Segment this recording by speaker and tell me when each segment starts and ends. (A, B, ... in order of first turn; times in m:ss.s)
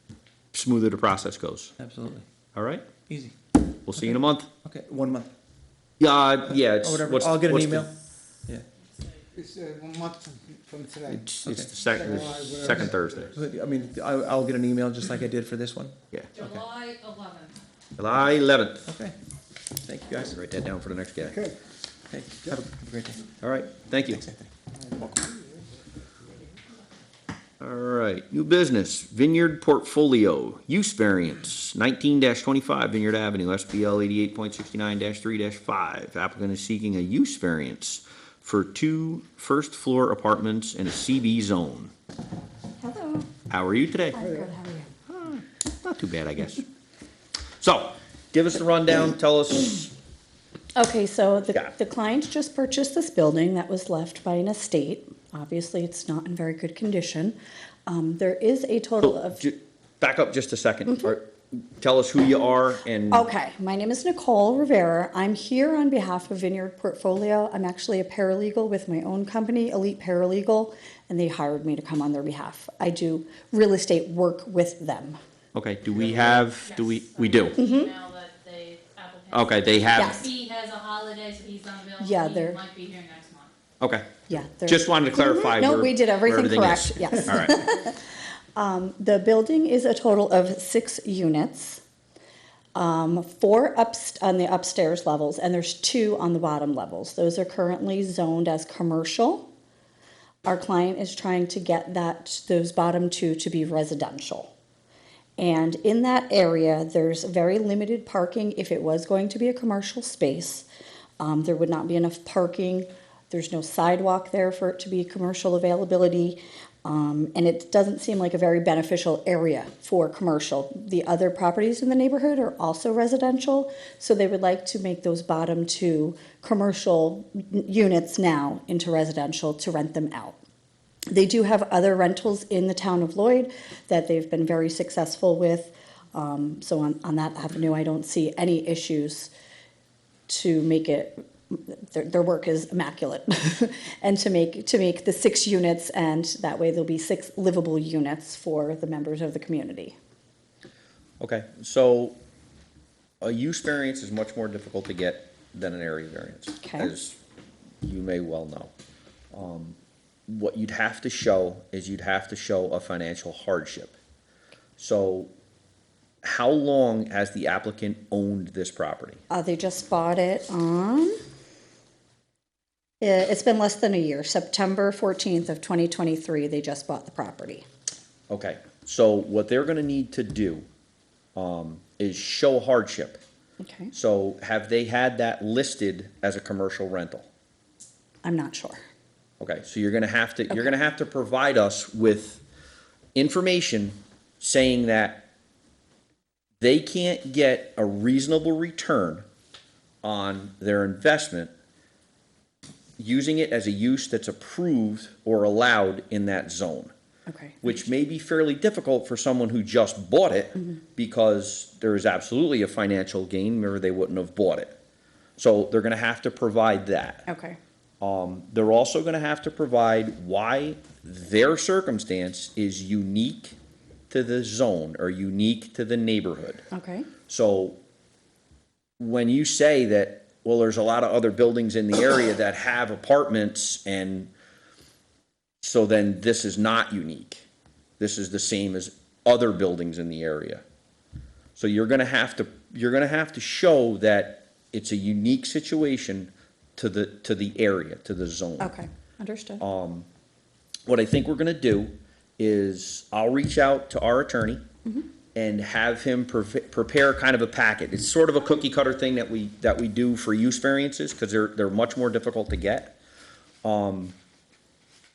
0:00.5-0:01.7 A
0:01.8-0:02.2 B
0:02.5-0:02.8 A
0:03.1-0:03.3 B
0:03.8-0:04.5 A
0:03.9-0:05.3 B
0:06.0-0:07.9 A
0:06.7-0:07.9 B
0:08.8-0:09.2 C
0:09.3-0:13.4 D
0:11.1-0:13.3 A
0:11.4-0:11.7 B
0:13.3-0:15.9 B
0:16.3-0:17.6 C
0:18.0-0:18.9 A
0:18.8-0:19.1 B
0:19.8-0:20.4 B
0:20.3-0:21.4 A
0:21.3-0:21.5 D
0:22.1-0:23.3 B
0:23.4-0:24.2 A
0:24.1-0:24.5 B
0:24.7-0:25.6 D
0:27.6-0:41.9 A
0:42.8-0:43.3 E
0:43.5-0:44.2 A
0:44.1-0:44.9 E
0:44.2-0:44.5 D
0:45.1-0:46.6 A
0:47.6-0:49.9 A
0:50.8-0:57.4 E
0:57.9-0:59.4 E
0:59.0-1:03.3 A
1:00.9-1:01.1 E
1:03.1-1:15.2 E
1:15.5-1:17.6 A
1:16.6-1:23.5 C
1:17.6-1:17.9 E
1:19.3-1:20.2 A
1:19.9-1:20.3 E
1:22.0-1:22.6 E
1:23.8-1:24.1 A
1:24.3-1:28.0 E
1:24.6-1:27.6 A
1:28.6-1:31.8 E
1:32.7-1:39.5 E
1:40.4-1:44.5 E
1:45.4-1:50.6 E
1:51.2-2:10.4 E
2:11.1-2:19.3 E
2:20.3-2:30.0 E
2:31.2-2:32.2 A
2:33.2-2:37.2 A
2:36.6-2:36.9 E
2:37.8-2:38.7 A
2:39.3-2:39.8 A
2:40.3-2:44.0 A
2:44.8-2:45.3 A
2:46.2-2:49.2 A
2:49.3-2:51.1 E
2:53.0-2:57.6 E
2:58.3-3:00.6 A
3:01.3-3:03.2 A
3:03.6-3:03.9 E
3:03.9-3:07.3 A
3:08.2-3:08.8 E
3:09.4-3:12.4 A
3:13.1-3:15.2 A
3:16.6-3:19.2 A
3:20.0-3:21.5 A
3:23.0-3:26.9 A
3:27.3-3:27.8 E
3:27.6-3:34.8 A
3:35.4-3:37.2 A
3:37.3-3:37.6 E
3:38.0-3:43.6 A
3:44.1-3:46.6 A
3:46.7-3:47.1 E
3:47.3-3:47.8 A
3:49.0-3:54.3 A
3:55.6-3:57.4 A
3:58.0-4:00.6 A
4:01.6-4:08.7 A
4:08.6-4:09.6 E
4:09.6-4:10.1 A
4:10.9-4:14.6 A
4:15.3-4:22.9 A
4:23.6-4:24.1 A